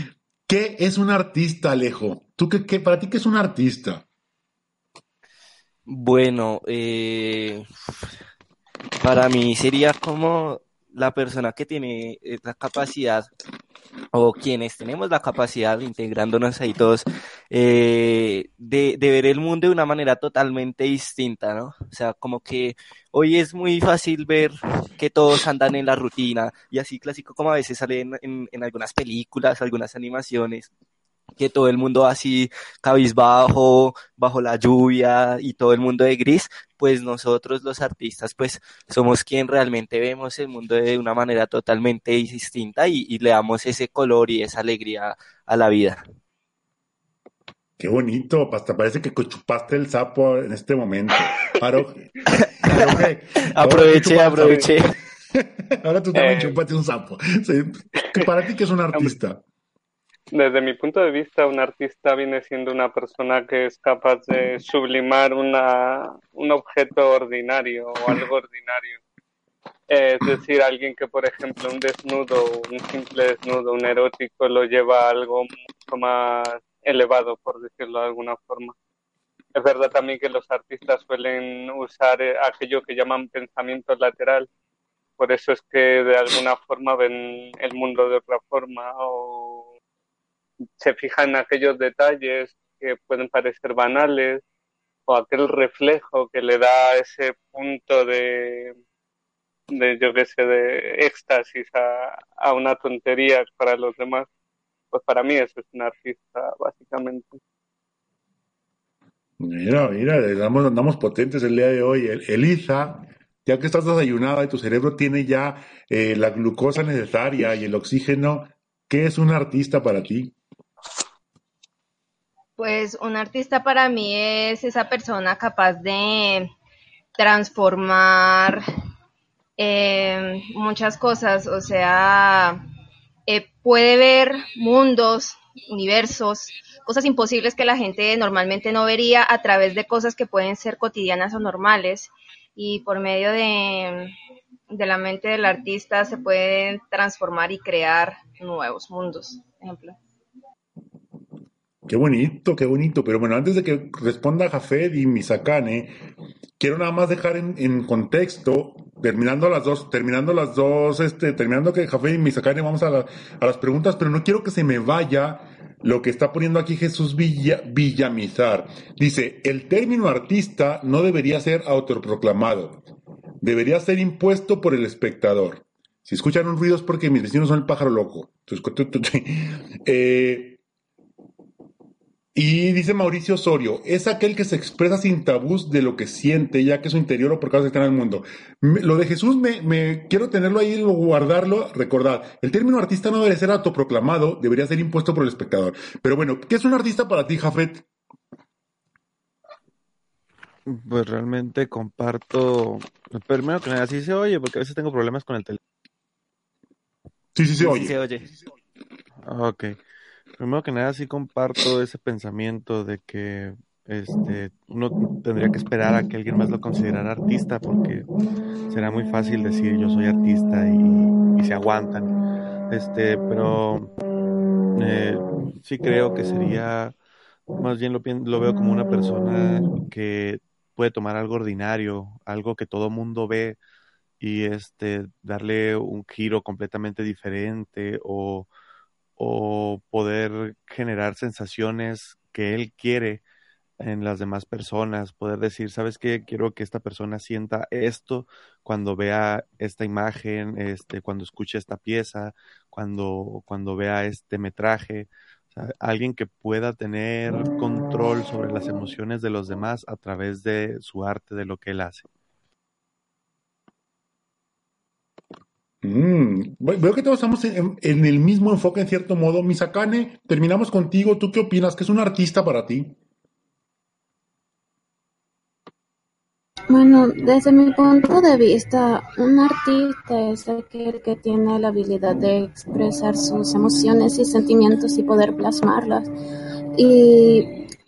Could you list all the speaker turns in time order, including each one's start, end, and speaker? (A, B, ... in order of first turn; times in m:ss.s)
0:00.5-0:04.0 A
0:05.9-0:07.7 B
0:09.0-0:13.3 B
0:14.1-0:30.7 B
0:31.4-0:46.0 B
0:47.8-0:52.1 A
0:52.3-0:53.0 B
0:52.6-0:59.4 A
0:53.5-0:54.9 B
0:56.1-0:56.6 C
1:00.3-1:09.0 C
1:09.9-1:18.7 C
1:19.6-1:24.5 C
1:25.2-1:29.7 C
1:30.8-1:34.4 C
1:35.1-1:38.7 C
1:39.7-1:44.3 C
1:44.9-1:47.4 C
1:49.4-2:00.3 A
2:02.6-2:06.5 D
2:07.2-2:08.6 D
2:09.6-2:12.6 D
2:13.3-2:24.1 D
2:24.7-2:30.0 D
2:31.9-2:36.0 A
2:36.6-2:52.8 A
2:53.4-3:00.6 A
3:02.4-3:17.9 A
3:20.7-3:25.6 E
3:27.4-3:28.0 A
3:27.6-3:28.3 B
3:29.3-3:29.8 E
3:30.4-3:38.1 E
3:38.7-3:42.1 E
3:42.7-3:43.9 E
3:44.8-3:47.0 E
3:47.6-3:53.6 E
3:54.2-3:58.5 E
3:59.2-4:03.2 E
4:03.8-4:22.1 E
4:25.8-4:33.0 A
4:36.7-4:46.1 F
4:46.8-4:47.6 F